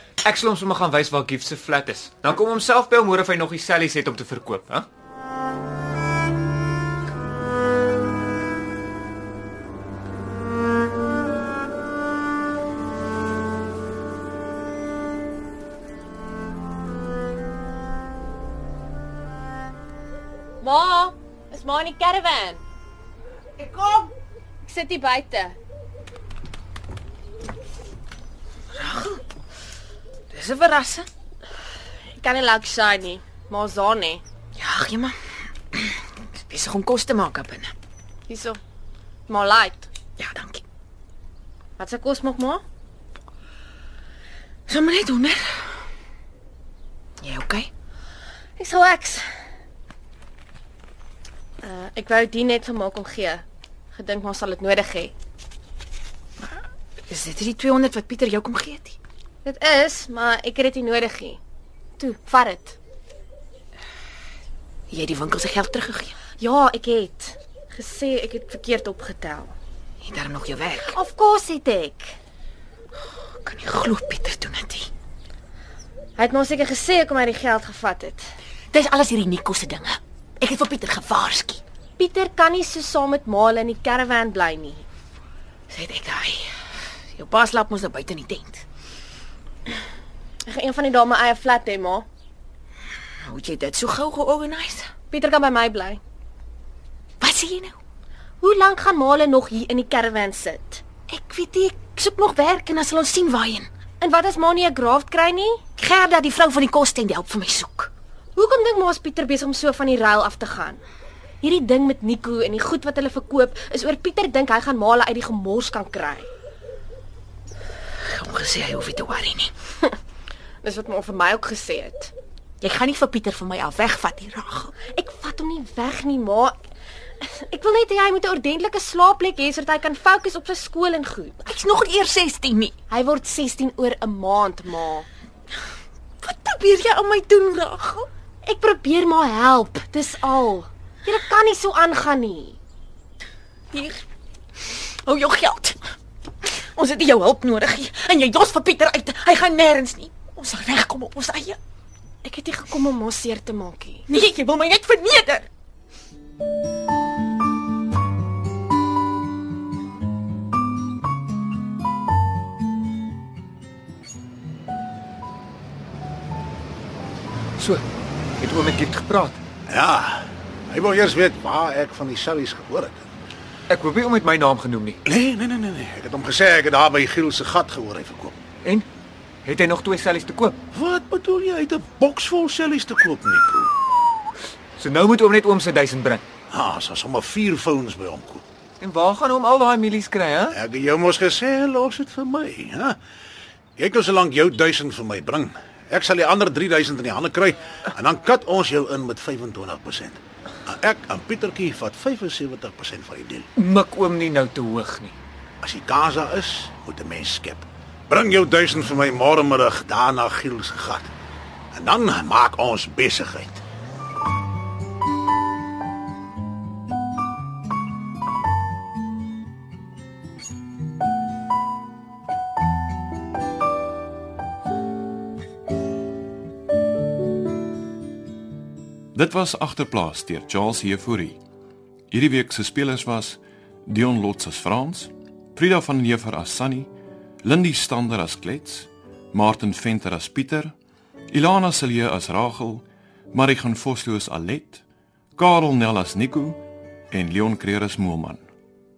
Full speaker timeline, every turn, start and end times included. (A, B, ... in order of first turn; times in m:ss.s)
0:00.2-0:04.9 A
0:20.6-0:22.6 B
0:23.6-0:24.0 C
0:24.6-0:25.6 B
0:28.8-0:29.2 C
0:30.3-0:31.1 C
0:32.2-0:34.2 B
0:34.6-0:35.2 C
0:36.4-0:37.7 C
0:38.3-0:38.6 B
0:39.3-0:39.9 B
0:40.2-0:40.6 C
0:41.8-0:42.6 B
0:44.7-0:45.4 C
0:47.2-0:47.7 C
0:48.6-0:49.2 B
0:51.6-0:55.1 B
0:57.1-0:59.0 C
0:59.4-1:01.4 B
1:02.0-1:02.8 B
1:04.9-1:06.1 C
1:06.4-1:09.5 B
1:10.0-1:10.9 C
1:10.9-1:12.2 B
1:13.4-1:14.9 C
1:16.2-1:18.2 B
1:18.7-1:21.6 C
1:22.0-1:24.8 B
1:25.7-1:26.5 C
1:27.2-1:28.6 C
1:30.5-1:32.1 B
1:33.3-1:34.9 C
1:35.1-1:36.0 B
1:37.2-1:37.8 C
1:38.4-1:40.8 B
1:41.1-1:43.7 C
1:44.0-1:45.7 B
1:45.8-1:47.9 C
1:48.4-1:50.8 B
1:51.4-1:56.3 B
1:58.1-1:59.5 C
2:00.6-2:02.1 B
2:02.6-2:04.7 C
2:04.9-2:06.6 B
2:07.2-2:11.5 B
2:11.5-2:12.7 C
2:12.9-2:15.1 B
2:16.2-2:18.1 C
2:18.5-2:22.6 B
2:25.0-2:25.8 C
2:26.8-2:31.6 C
2:32.2-2:34.0 B
2:34.1-2:35.5 C
2:47.6-2:47.8 A
2:48.4-2:49.4 A
2:49.7-2:53.1 D
2:53.7-2:55.0 A
2:55.0-2:58.4 D
2:59.4-3:00.6 A
3:00.7-3:03.7 D
3:04.8-3:06.2 A
3:06.5-3:08.4 D
3:08.8-3:10.6 A
3:10.5-3:13.0 D
3:13.8-3:23.5 D
3:23.6-3:25.2 A
3:25.6-3:31.1 D
3:31.7-3:33.6 D
3:49.2-3:51.4 E
3:52.1-3:56.9 E
3:57.4-4:00.7 E
4:01.3-4:04.8 E
4:05.4-4:08.4 E